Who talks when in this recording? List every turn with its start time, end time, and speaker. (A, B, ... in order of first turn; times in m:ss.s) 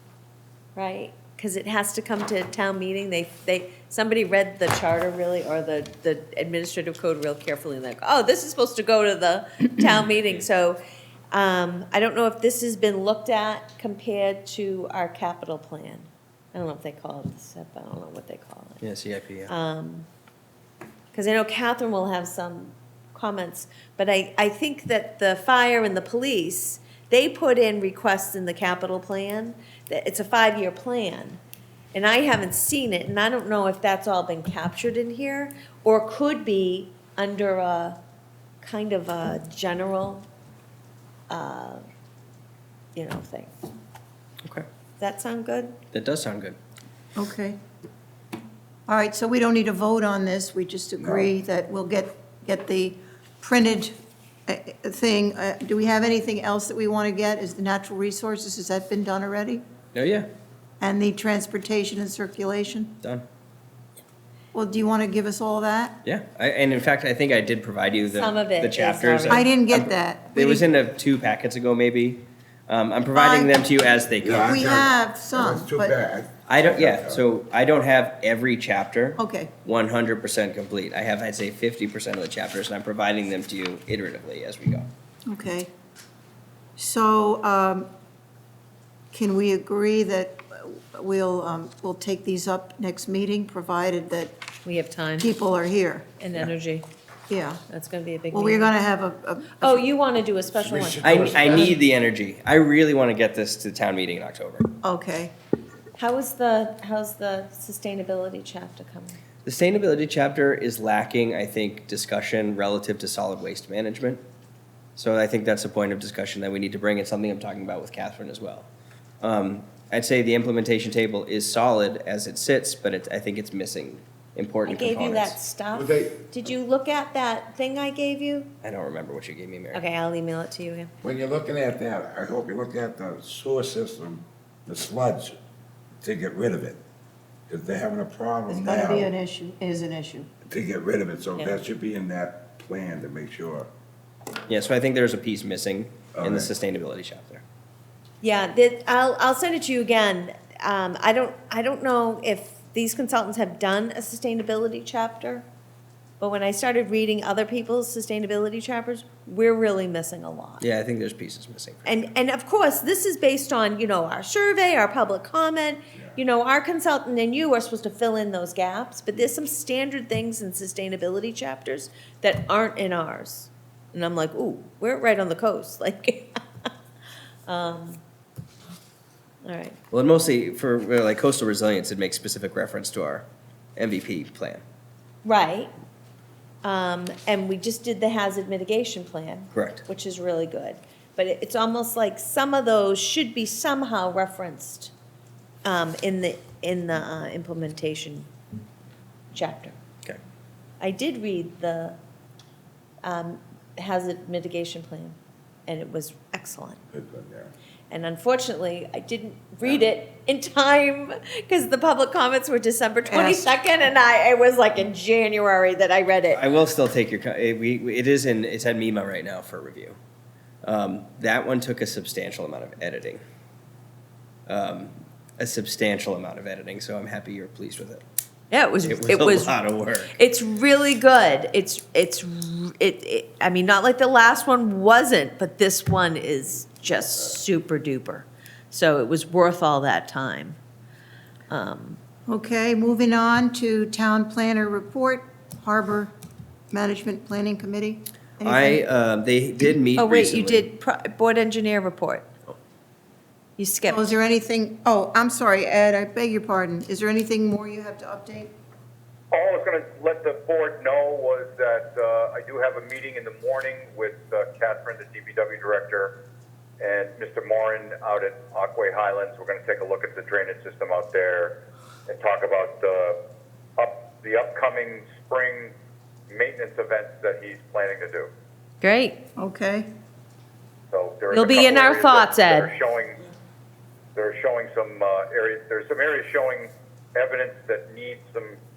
0:00.8-0:10.8 A
0:10.1-0:10.4 B
0:11.3-0:18.8 A
0:18.8-0:19.5 B
0:19.5-0:20.1 A
0:21.1-0:31.4 A
0:31.9-0:38.0 A
0:38.6-0:40.3 A
0:41.3-0:41.9 A
0:43.0-0:43.5 A
0:45.0-0:45.8 A
0:45.9-0:46.6 B
0:47.2-0:47.6 C
0:48.9-0:54.0 C
0:51.0-0:51.3 D
0:54.5-0:59.6 C
1:00.0-1:00.3 B
1:00.8-1:03.0 C
1:04.5-1:06.0 C
1:06.0-1:14.9 B
1:08.1-1:09.5 A
1:09.3-1:10.7 C
1:13.0-1:13.6 C
1:14.2-1:17.2 D
1:14.3-1:16.0 C
1:16.5-1:24.9 B
1:19.2-1:19.5 C
1:25.3-1:25.7 C
1:26.8-1:27.9 C
1:29.1-1:34.4 C
1:34.6-1:35.3 A
1:35.2-1:36.1 C
1:36.2-1:36.8 A
1:37.3-1:37.6 C
1:37.7-1:38.7 A
1:38.3-1:39.8 C
1:39.6-1:41.6 A
1:40.5-1:41.7 D
1:41.0-1:44.7 B
1:44.8-1:45.3 C
1:46.0-1:49.2 A
1:49.4-1:54.2 B
1:55.0-1:58.7 B
1:59.2-2:05.4 B
2:04.7-2:08.5 A
2:05.7-2:06.2 D
2:08.6-2:09.8 B
2:09.7-2:10.9 A
2:11.0-2:15.4 D
2:16.0-2:16.8 D
2:17.5-2:19.1 D
2:18.5-2:20.3 C
2:20.4-2:23.7 D
2:21.4-2:21.6 A
2:24.5-2:27.4 B
2:26.2-2:26.5 D
2:28.2-2:35.4 A
2:36.2-2:40.6 A
2:40.6-2:42.0 B
2:41.9-2:56.7 A
2:57.5-2:58.0 A
2:59.4-2:59.8 A
2:59.9-3:03.2 B
3:03.8-3:04.6 B
3:05.2-3:05.7 A
3:06.6-3:14.9 A
3:09.5-3:09.8 B
3:15.6-3:18.3 A
3:19.3-3:19.8 A
3:20.8-3:22.0 A
3:23.0-3:25.2 A
3:25.7-3:26.8 A
3:26.9-3:27.5 D
3:27.9-3:36.4 A
3:33.1-3:33.4 C
3:36.3-3:40.0 B
3:40.6-3:43.2 B
3:44.5-3:48.0 B
3:48.5-3:49.6 A
3:48.8-3:50.1 B
3:50.1-4:00.6 A
4:01.5-4:02.0 A
4:02.3-4:06.1 C
4:06.7-4:08.8 C
4:08.4-4:10.7 B
4:10.0-4:12.3 A
4:13.6-4:14.1 A
4:13.9-4:18.5 C
4:19.3-4:26.2 E
4:26.8-4:33.2 E
4:33.8-4:35.7 E
4:36.3-4:38.3 E
4:38.8-4:39.2 A
4:39.4-4:39.9 C
4:40.9-4:43.2 E
4:41.3-4:42.7 A
4:44.2-4:48.6 E